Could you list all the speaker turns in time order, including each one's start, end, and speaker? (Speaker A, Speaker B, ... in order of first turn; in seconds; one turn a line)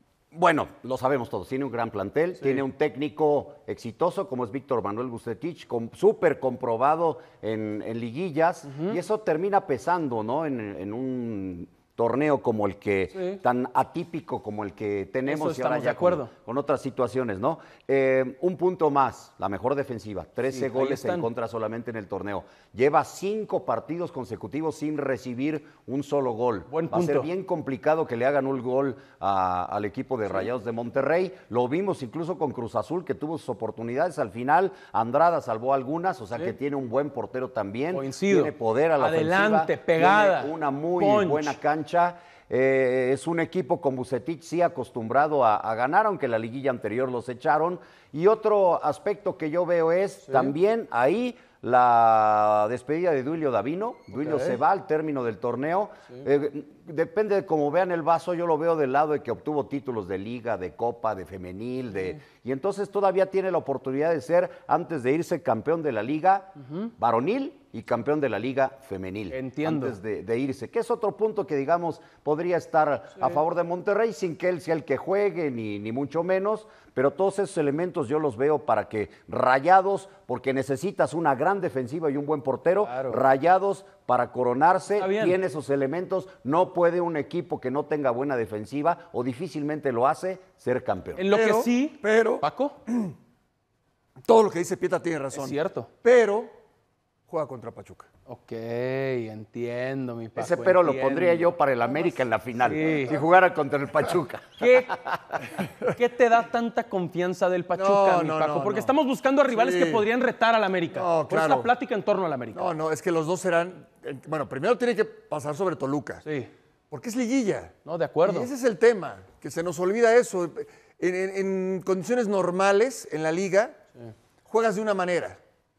Speaker A: 0.3-91.2
Speaker B: 2.4-2.6
Speaker B: 8.7-9.0
Speaker B: 13.1-13.4
Speaker B: 15.2-16.3
Speaker B: 20.5-21.3
Speaker B: 26.7-27.3
Speaker B: 37.9-41.6
Speaker B: 50.2-50.5
Speaker B: 54.1-54.6
Speaker B: 69.3-70.0
Speaker B: 73.2-73.4
Speaker B: 82.8-83.2
Speaker B: 85.0-85.4
Speaker B: 91.2-92.8
Speaker C: 91.3-93.1
Speaker C: 94.3-96.5
Speaker B: 95.3-95.9
Speaker C: 97.3-98.1
Speaker B: 98.3-101.5
Speaker A: 100.3-105.4
Speaker B: 102.6-103.2
Speaker B: 104.6-104.9
Speaker B: 105.9-112.7
Speaker C: 107.7-108.9
Speaker C: 109.5-110.1
Speaker C: 110.9-111.7
Speaker C: 112.5-116.2
Speaker B: 116.2-116.5
Speaker C: 116.9-123.8
Speaker B: 117.8-118.5
Speaker C: 124.5-125.4